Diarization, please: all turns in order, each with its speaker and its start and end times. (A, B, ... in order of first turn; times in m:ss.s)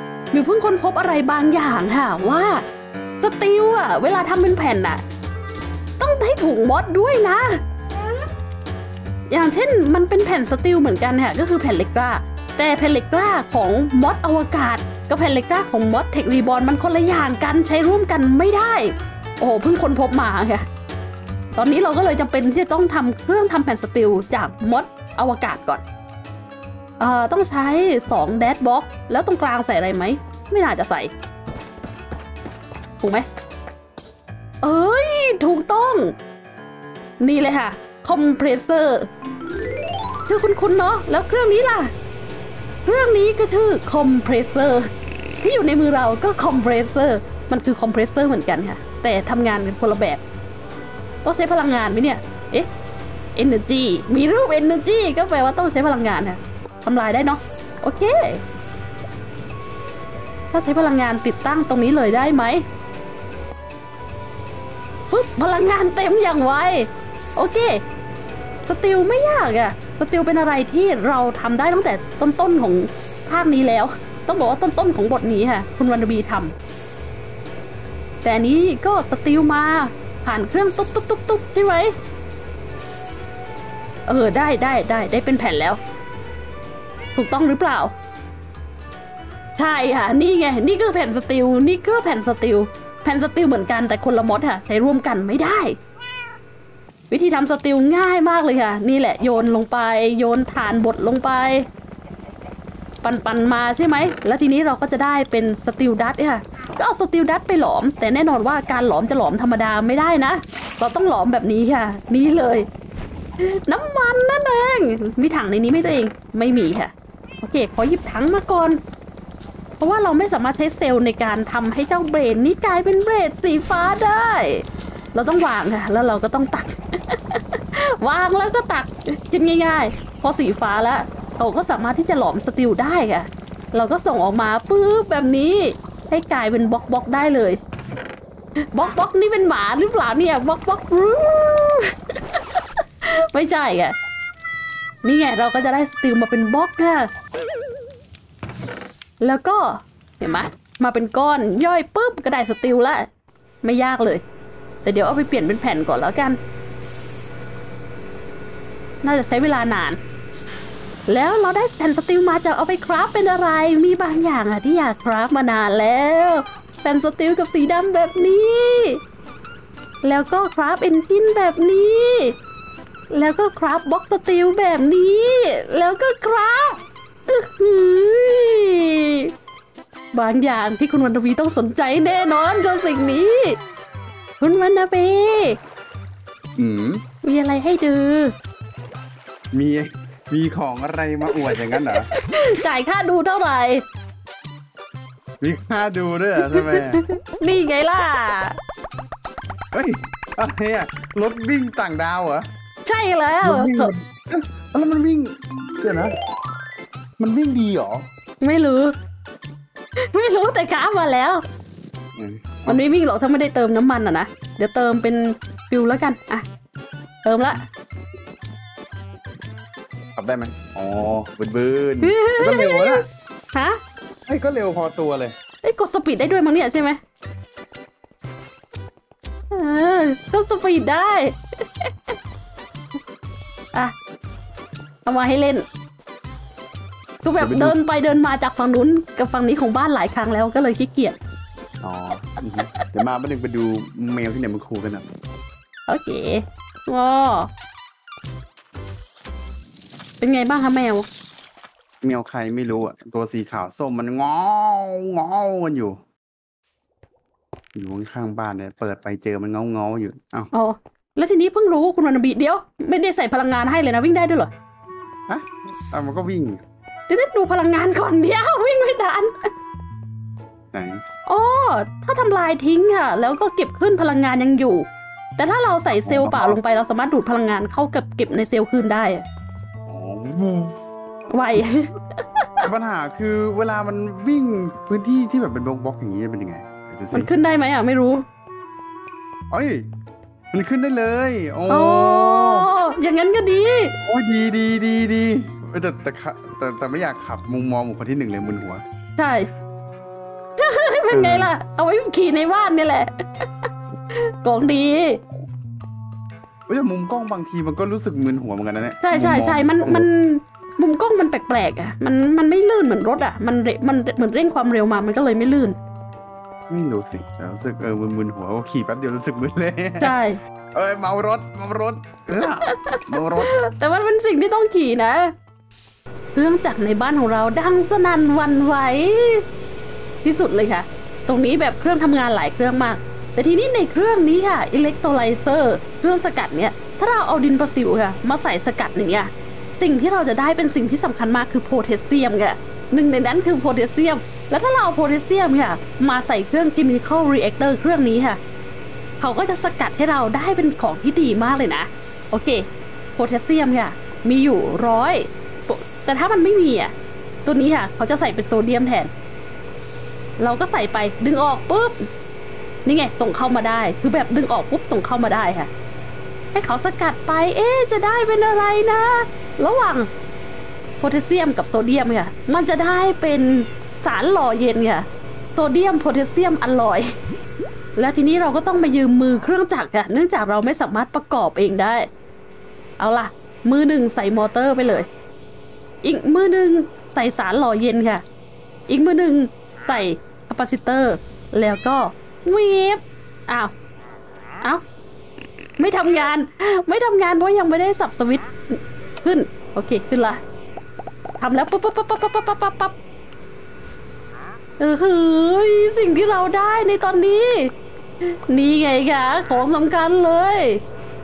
0:00.3-0:02.6 A
0:03.2-0:05.0 A
0:06.0-0:07.6 A
0:09.3-0:20.6 A
0:21.6-0:25.8 A
0:27.0-0:31.1 A
0:33.0-0:33.2 A
0:34.6-0:36.1 A
0:37.2-0:39.1 A
0:40.3-0:41.9 A
0:42.8-0:50.2 A
0:51.2-0:52.7 A
0:53.4-0:58.4 A
1:00.5-1:02.6 A
1:05.1-1:07.8 A
1:08.7-1:16.5 A
1:18.2-1:21.9 A
1:24.1-1:25.8 A
1:27.1-1:27.9 A
1:29.6-1:35.8 A
1:37.1-1:41.6 A
1:43.0-1:52.7 A
1:53.4-1:58.8 A
1:59.8-2:17.6 A
2:18.7-2:23.9 A
2:25.0-2:27.1 A
2:29.2-2:33.1 A
2:33.6-2:34.2 A
2:34.8-2:36.4 A
2:39.0-2:40.0 A
2:41.1-2:49.0 A
2:50.0-2:52.4 A
2:53.1-2:59.3 A
3:00.1-3:03.6 A
3:04.4-3:05.6 A
3:06.6-3:07.0 B
3:07.2-3:08.4 A
3:09.5-3:12.1 B
3:11.4-3:13.8 A
3:15.4-3:17.0 B
3:16.5-3:18.6 A
3:19.7-3:22.5 B
3:22.8-3:23.9 A
3:23.4-3:26.2 B
3:27.2-3:28.1 B
3:28.4-3:28.9 A
3:30.0-3:31.4 A
3:32.2-3:32.8 B
3:32.7-3:36.4 A
3:37.2-3:37.6 A
3:40.2-3:43.0 B
3:42.0-3:43.0 A
3:43.5-3:43.8 A
3:44.3-3:45.3 B
3:45.6-3:47.0 A
3:49.5-3:52.1 A
3:55.0-3:55.6 A
3:57.2-4:01.2 A
3:57.4-3:57.8 B
4:01.8-4:05.1 B
4:05.9-4:07.5 A
4:10.2-4:11.1 A
4:12.0-4:16.0 B
4:17.7-4:20.5 B
4:20.5-4:24.5 A
4:25.3-4:26.6 B
4:27.1-4:29.5 A
4:30.7-4:31.0 B
4:31.3-4:39.2 A
4:36.0-4:36.6 B
4:39.9-4:40.8 B
4:41.3-4:42.5 A
4:42.6-4:47.3 B
4:47.1-4:48.2 A
4:49.5-4:49.8 B
4:50.5-4:52.7 B
4:51.7-4:54.0 A
4:54.0-4:58.8 B
4:59.2-4:59.5 A
5:00.6-5:05.2 A
5:01.1-5:01.5 B
5:06.7-5:10.1 B
5:09.0-5:15.8 A
5:16.7-5:20.1 B
5:20.0-5:20.4 A
5:20.7-5:23.5 B
5:22.6-5:25.3 A
5:26.3-5:29.4 A
5:30.2-5:48.4 A
5:49.2-5:52.6 A
5:53.2-5:56.9 A
5:57.4-5:59.1 A
6:00.4-6:02.0 A
6:02.8-6:05.7 A
6:06.5-6:10.1 A
6:11.0-6:17.1 A
6:18.0-6:22.1 A
6:23.0-6:25.1 A
6:26.0-6:28.2 A
6:28.9-6:33.7 A
6:35.8-6:40.4 A
6:41.4-6:43.0 A
6:44.8-6:50.8 A